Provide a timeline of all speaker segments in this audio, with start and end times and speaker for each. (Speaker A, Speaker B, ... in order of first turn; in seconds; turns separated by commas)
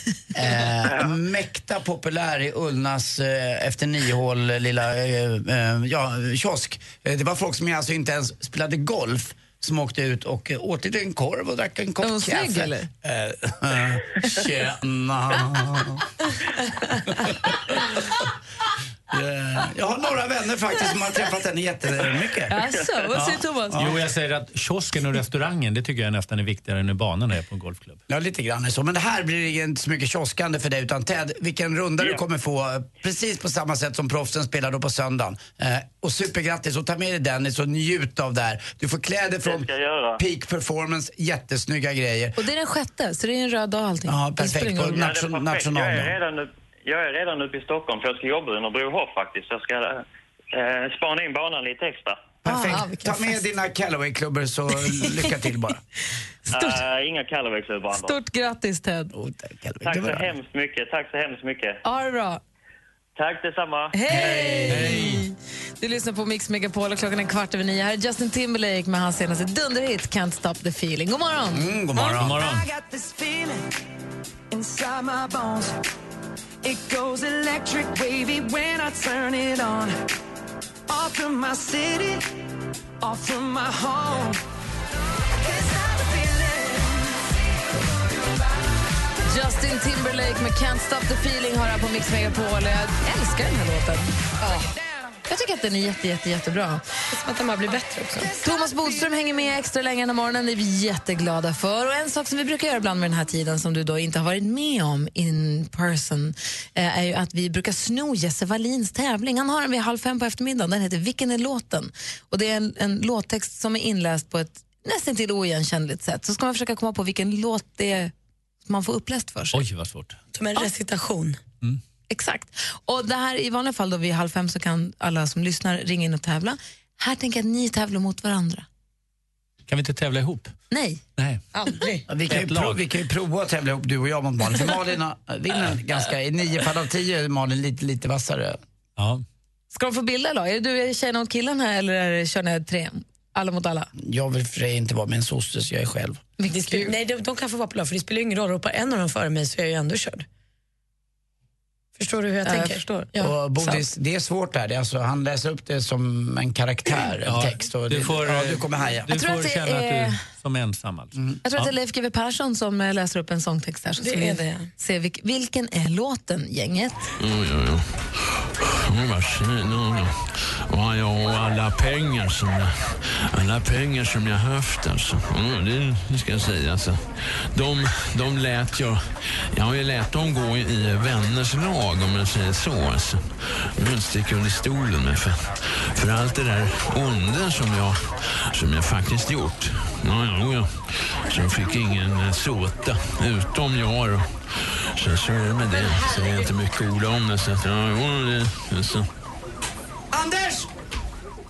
Speaker A: 0.3-16.1, Speaker B: 12.0-12.9, Speaker A: 17.2-17.6, Speaker A: 19.1-24.0, Speaker B: 22.5-23.8, Speaker C: 23.7-28.0, Speaker A: 28.1-42.4, Speaker D: 39.4-40.2, Speaker B: 42.4-45.1, Speaker A: 44.1-46.2, Speaker D: 45.0-52.3, Speaker A: 52.4-55.8, Speaker E: 52.5-53.4, Speaker B: 56.5-56.8, Speaker D: 56.5-58.1, Speaker B: 57.9-59.1, Speaker A: 59.1-60.3, Speaker D: 59.8-61.8, Speaker B: 61.9-62.4, Speaker D: 63.2-64.0, Speaker B: 63.9-71.7, Speaker A: 64.1-65.1, Speaker C: 64.7-65.3, Speaker A: 71.5-72.5, Speaker F: 72.0-73.7, Speaker C: 72.2-72.7, Speaker F: 74.5-75.8, Speaker F: 76.6-80.0, Speaker F: 80.9-82.4, Speaker F: 83.0-84.4, Speaker F: 85.4-87.2, Speaker B: 89.3-94.2, Speaker E: 94.4-94.7, Speaker B: 95.3-96.8, Speaker E: 97.1-98.3, Speaker B: 98.4-118.1, Speaker F: 98.5-99.0, Speaker B: 118.7-119.6, Speaker C: 119.5-120.2, Speaker E: 120.3-121.4, Speaker B: 122.1-128.7, Speaker C: 129.7-130.5, Speaker B: 130.7-131.0, Speaker C: 131.2-131.4, Speaker E: 131.5-132.1, Speaker A: 132.1-138.6, Speaker C: 132.3-132.8, Speaker C: 139.0-139.2, Speaker B: 139.7-143.9, Speaker A: 144.0-146.2, Speaker B: 146.4-146.9, Speaker E: 146.5-150.3, Speaker E: 152.0-153.4, Speaker B: 152.4-153.1, Speaker A: 153.2-159.1, Speaker C: 157.2-161.7, Speaker B: 159.1-160.2, Speaker A: 161.2-161.4, Speaker B: 161.4-167.1, Speaker E: 164.0-164.7, Speaker G: 167.2-199.1, Speaker E: 195.9-196.5, Speaker A: 200.1-200.7